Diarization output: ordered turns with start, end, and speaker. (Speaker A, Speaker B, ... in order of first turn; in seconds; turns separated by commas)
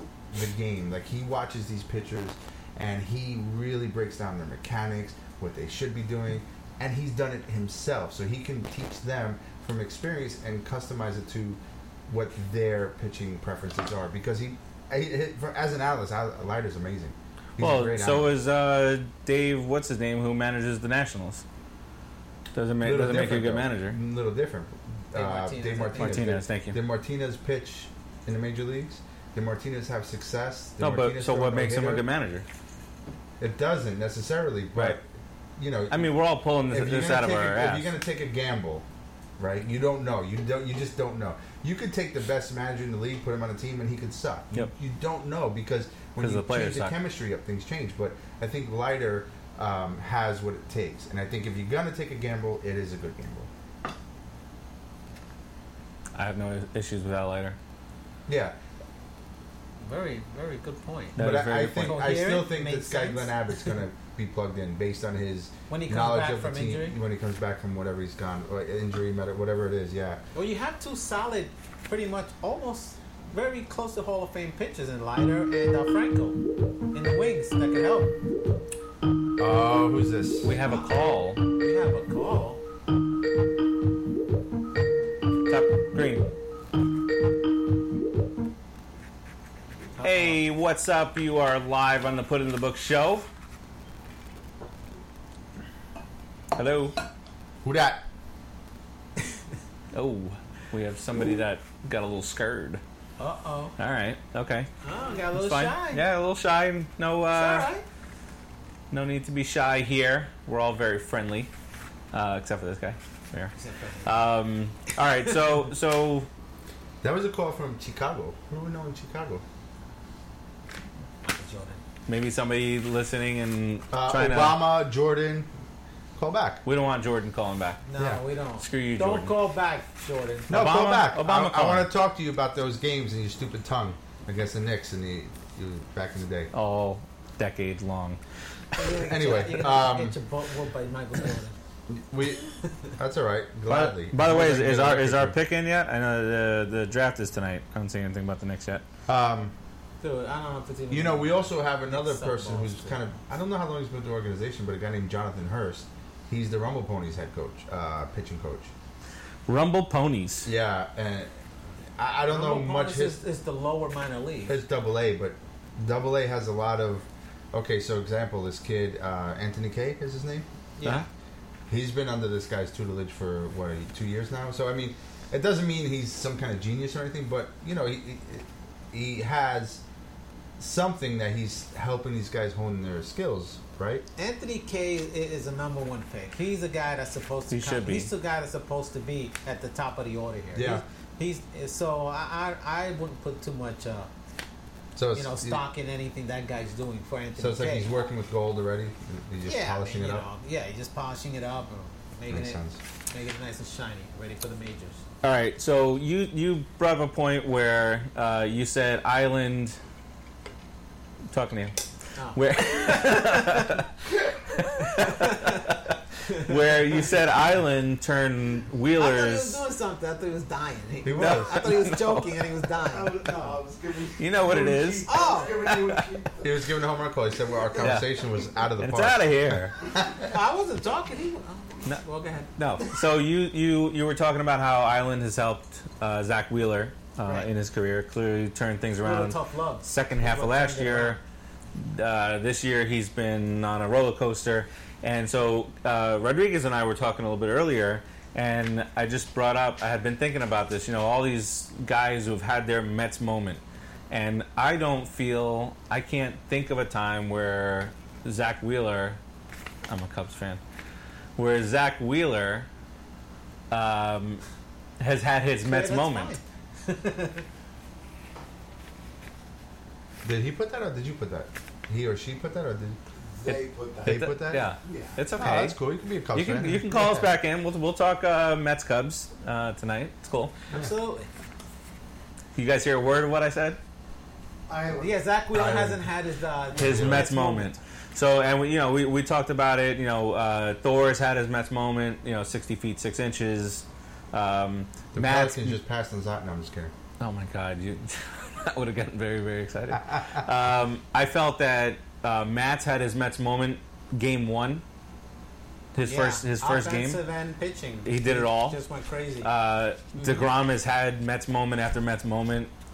Speaker A: 0.3-18.3, Speaker B: 17.6-21.4, Speaker B: 22.5-24.0, Speaker A: 22.8-32.0, Speaker C: 25.1-26.2, Speaker B: 26.0-26.8, Speaker B: 30.8-32.5, Speaker A: 33.4-35.0, Speaker A: 35.6-36.1, Speaker B: 35.9-37.9, Speaker A: 36.7-38.9, Speaker A: 39.4-53.5, Speaker B: 46.2-47.0, Speaker B: 56.1-57.6, Speaker A: 58.3-58.5, Speaker C: 59.8-61.2, Speaker B: 61.2-62.1, Speaker A: 61.2-70.2, Speaker C: 61.8-63.7, Speaker C: 65.7-67.0, Speaker C: 70.3-76.4, Speaker C: 76.9-78.1, Speaker A: 79.4-80.5, Speaker B: 80.5-81.4, Speaker C: 80.6-82.6, Speaker B: 85.5-86.3, Speaker C: 90.0-90.4, Speaker B: 90.0-93.3, Speaker B: 96.5-97.0, Speaker A: 97.6-98.0, Speaker B: 99.9-102.8, Speaker C: 103.2-103.8, Speaker B: 103.8-104.7, Speaker C: 104.8-106.0, Speaker B: 105.3-107.7, Speaker C: 107.3-107.8, Speaker B: 108.9-111.5, Speaker B: 112.1-113.5, Speaker C: 113.6-114.1, Speaker B: 114.0-116.3, Speaker A: 117.0-119.4, Speaker C: 121.2-121.8, Speaker B: 122.1-124.6, Speaker A: 123.9-125.5, Speaker A: 126.2-126.6, Speaker B: 126.7-127.8, Speaker C: 127.9-130.5, Speaker B: 128.6-129.3, Speaker B: 130.5-131.9, Speaker A: 130.5-136.5, Speaker B: 136.5-138.2, Speaker C: 138.8-141.6, Speaker A: 138.9-140.2, Speaker A: 141.9-145.4, Speaker B: 143.7-148.8, Speaker A: 149.1-149.5, Speaker C: 150.0-153.1, Speaker A: 150.9-158.7, Speaker B: 159.5-160.5, Speaker A: 160.4-161.3, Speaker A: 162.0-163.2, Speaker C: 162.3-164.6, Speaker A: 164.5-170.5, Speaker C: 170.8-171.1, Speaker A: 171.7-179.8, Speaker A: 180.6-184.1, Speaker C: 184.2-194.1, Speaker B: 187.5-188.1, Speaker A: 190.5-190.8, Speaker A: 195.0-195.6, Speaker C: 195.1-197.9, Speaker A: 197.4-200.3, Speaker C: 199.4-205.0, Speaker A: 202.3-202.8, Speaker B: 205.2-209.8, Speaker B: 211.3-211.7, Speaker C: 212.2-213.8, Speaker B: 212.3-213.9, Speaker D: 214.1-214.4, Speaker B: 214.6-219.6, Speaker C: 214.8-215.7, Speaker C: 219.0-223.6, Speaker A: 221.0-221.6, Speaker B: 221.2-222.4, Speaker D: 222.8-226.4, Speaker B: 224.2-225.1, Speaker C: 225.1-225.7, Speaker B: 225.7-226.0, Speaker A: 226.4-230.3, Speaker B: 227.8-228.1, Speaker B: 228.8-229.7, Speaker C: 230.2-232.5, Speaker B: 232.6-241.2, Speaker C: 237.2-237.5, Speaker C: 239.0-241.2, Speaker B: 241.8-259.2, Speaker B: 259.9-260.6, Speaker B: 261.4-262.7, Speaker B: 263.7-264.4, Speaker B: 265.0-266.4, Speaker C: 265.6-267.4, Speaker A: 270.2-273.0, Speaker D: 273.3-275.2, Speaker A: 273.5-274.7, Speaker B: 274.1-275.8, Speaker A: 275.4-277.3, Speaker B: 276.3-280.5, Speaker C: 280.7-281.3, Speaker B: 282.6-283.8, Speaker D: 284.7-285.2, Speaker C: 284.9-287.8, Speaker A: 285.5-286.0, Speaker A: 286.8-287.3, Speaker B: 286.8-295.8, Speaker A: 295.1-296.9, Speaker B: 297.2-304.8, Speaker B: 305.9-307.2, Speaker C: 306.1-309.5, Speaker B: 308.1-308.8, Speaker B: 309.4-312.7, Speaker C: 310.1-310.5